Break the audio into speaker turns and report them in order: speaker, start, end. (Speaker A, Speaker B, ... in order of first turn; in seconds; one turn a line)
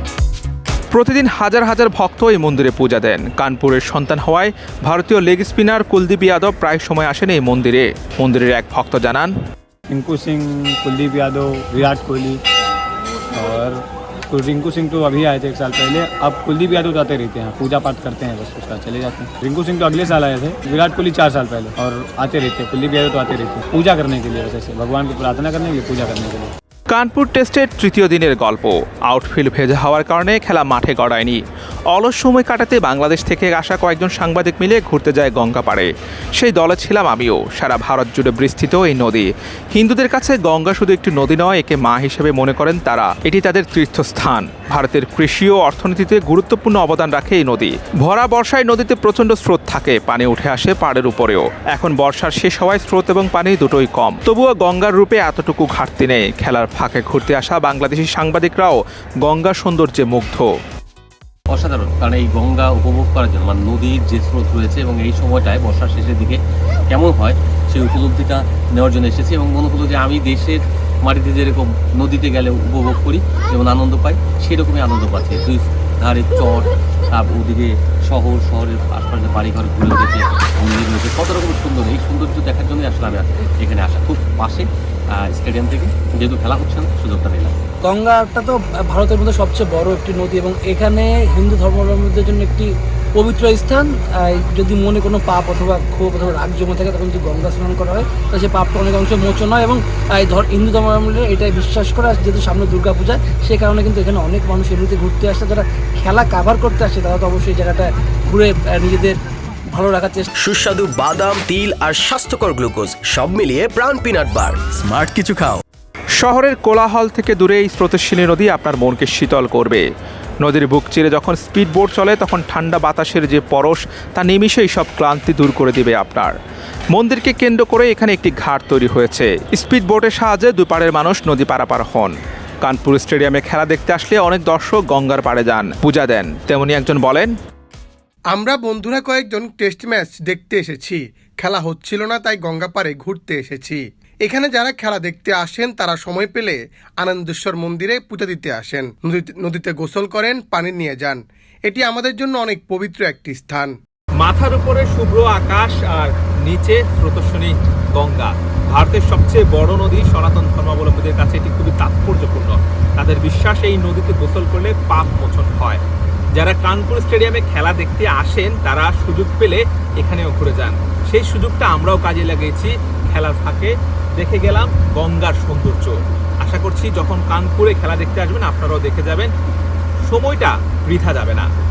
Speaker A: 0.9-9.3
Speaker B: 9.9-12.4
Speaker B: 13.3-26.5
Speaker A: 26.9-60.5
Speaker C: 61.5-87.6
Speaker D: 87.8-109.2
Speaker D: 109.7-110.3
Speaker E: 110.4-115.6
Speaker A: 116.2-119.9
Speaker A: 120.4-126.4
Speaker A: 126.9-137.3
Speaker F: 138.3-153.8
Speaker A: 154.2-165.8
Speaker A: 166.4-179.3
Speaker A: 180.1-181.5